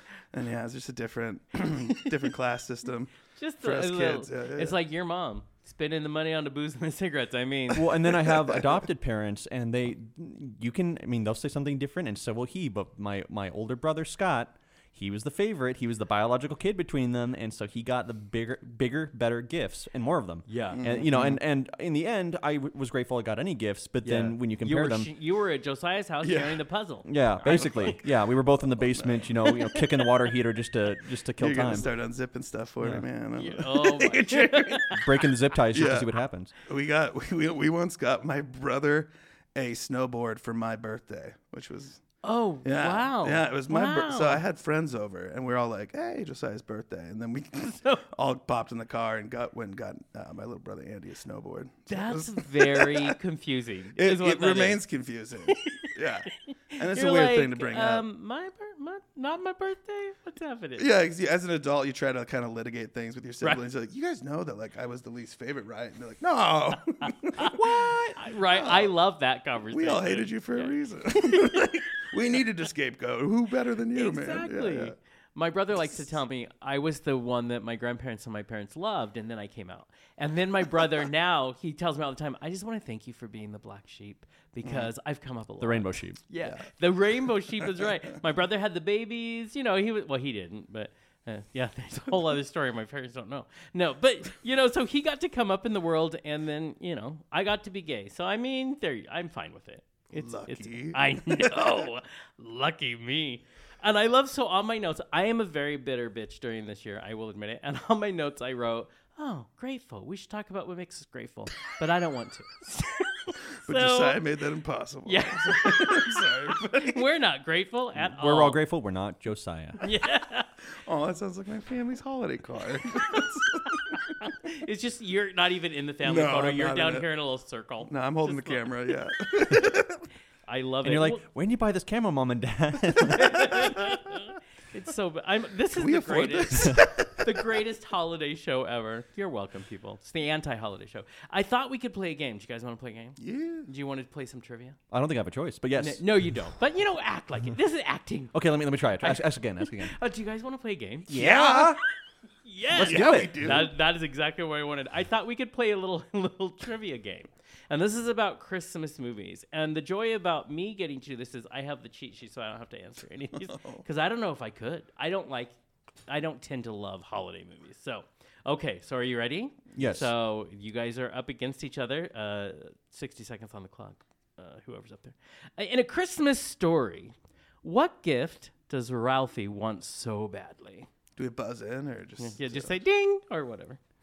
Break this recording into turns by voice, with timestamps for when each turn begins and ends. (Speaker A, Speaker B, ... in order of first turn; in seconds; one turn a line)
Speaker A: 0.3-4.8
Speaker B: 3.3-8.1
Speaker C: 7.7-25.1
Speaker B: 20.5-21.1
Speaker A: 20.7-21.4
Speaker B: 24.0-28.0
Speaker A: 26.2-26.6
Speaker C: 27.0-31.9
Speaker A: 27.5-29.4
Speaker B: 29.5-29.8
Speaker A: 31.4-34.9
Speaker B: 33.4-35.0
Speaker C: 34.9-36.5
Speaker A: 35.7-36.1
Speaker A: 36.6-42.0
Speaker B: 42.2-44.4
Speaker A: 42.6-53.1
Speaker B: 47.6-48.0
Speaker B: 51.9-54.8
Speaker A: 54.0-58.0
Speaker B: 55.5-60.9
Speaker A: 60.8-68.9
Speaker B: 67.3-71.8
Speaker A: 69.7-74.9
Speaker B: 73.9-114.2
Speaker A: 84.6-84.9
Speaker C: 85.6-86.2
Speaker A: 100.1-101.8
Speaker A: 113.6-117.0
Speaker B: 115.0-118.6
Speaker C: 118.0-119.8
Speaker B: 119.8-120.5
Speaker A: 120.8-124.1
Speaker B: 124.2-128.6
Speaker A: 126.0-127.1
Speaker A: 127.9-130.0
Speaker B: 130.5-131.2
Speaker C: 130.8-133.7
Speaker B: 133.0-144.8
Speaker A: 135.7-137.5
Speaker A: 143.2-143.7
Speaker C: 144.9-146.0
Speaker B: 145.8-148.3
Speaker C: 148.3-149.9
Speaker B: 149.0-151.6
Speaker C: 151.1-151.8
Speaker A: 151.1-151.8
Speaker B: 152.4-165.5
Speaker C: 152.7-153.7
Speaker A: 152.8-153.7
Speaker A: 163.5-163.8
Speaker B: 166.1-180.9
Speaker C: 169.7-170.1
Speaker A: 181.2-182.8
Speaker B: 182.2-183.8